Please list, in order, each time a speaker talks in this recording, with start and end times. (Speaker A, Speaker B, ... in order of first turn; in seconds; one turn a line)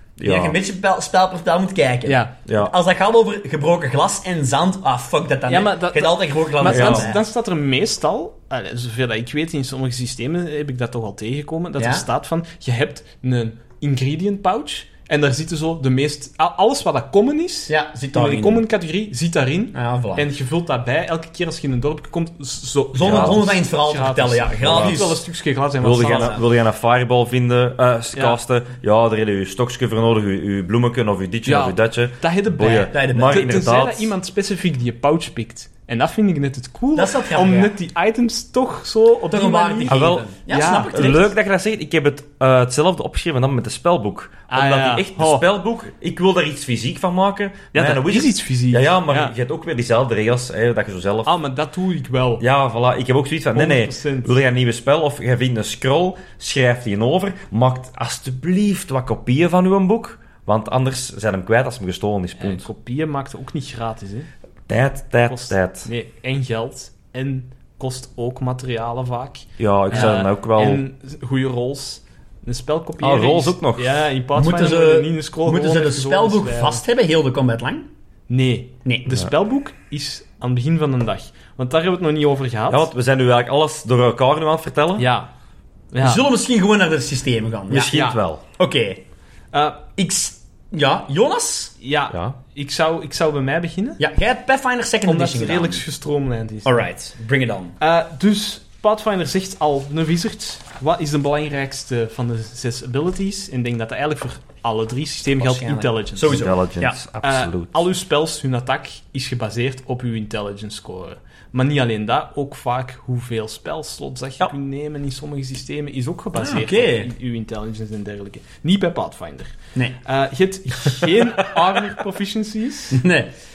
Speaker A: 0.2-0.6
Speaker B: 0.2-7.2
Speaker C: 2.0-2.3
Speaker A: 2.5-2.7
Speaker C: 5.5-26.4
Speaker A: 6.7-7.1
Speaker B: 11.8-12.0
Speaker B: 17.7-18.6
Speaker B: 19.7-20.3
Speaker B: 22.9-25.2
Speaker A: 23.0-23.4
Speaker A: 24.6-25.1
Speaker A: 25.8-34.1
Speaker B: 26.1-26.4
Speaker C: 31.4-41.1
Speaker B: 32.9-33.6
Speaker B: 36.9-37.7
Speaker B: 39.3-41.3
Speaker A: 39.9-40.3
Speaker A: 40.9-51.3
Speaker C: 44.5-45.4
Speaker C: 47.7-49.3
Speaker C: 51.2-52.4
Speaker A: 52.4-62.7
Speaker C: 53.5-54.3
Speaker C: 62.4-64.3
Speaker A: 64.7-65.9
Speaker C: 65.3-76.8
Speaker A: 69.6-70.8
Speaker A: 73.0-74.0
Speaker B: 74.3-77.9
Speaker C: 78.3-82.9
Speaker B: 78.8-79.2
Speaker A: 82.7-85.1
Speaker C: 85.0-85.3
Speaker C: 85.9-86.2
Speaker B: 86.0-88.0
Speaker A: 87.7-88.4
Speaker C: 87.9-88.2
Speaker B: 88.6-89.0
Speaker C: 89.5-89.8
Speaker B: 90.0-91.7
Speaker C: 91.8-94.0
Speaker A: 92.1-92.4
Speaker B: 94.0-95.8
Speaker C: 95.0-96.8
Speaker B: 96.6-97.7
Speaker C: 97.8-106.5
Speaker B: 105.4-107.0
Speaker A: 106.2-107.8
Speaker C: 107.2-119.5
Speaker B: 116.3-117.1
Speaker C: 120.0-123.0
Speaker B: 122.9-123.3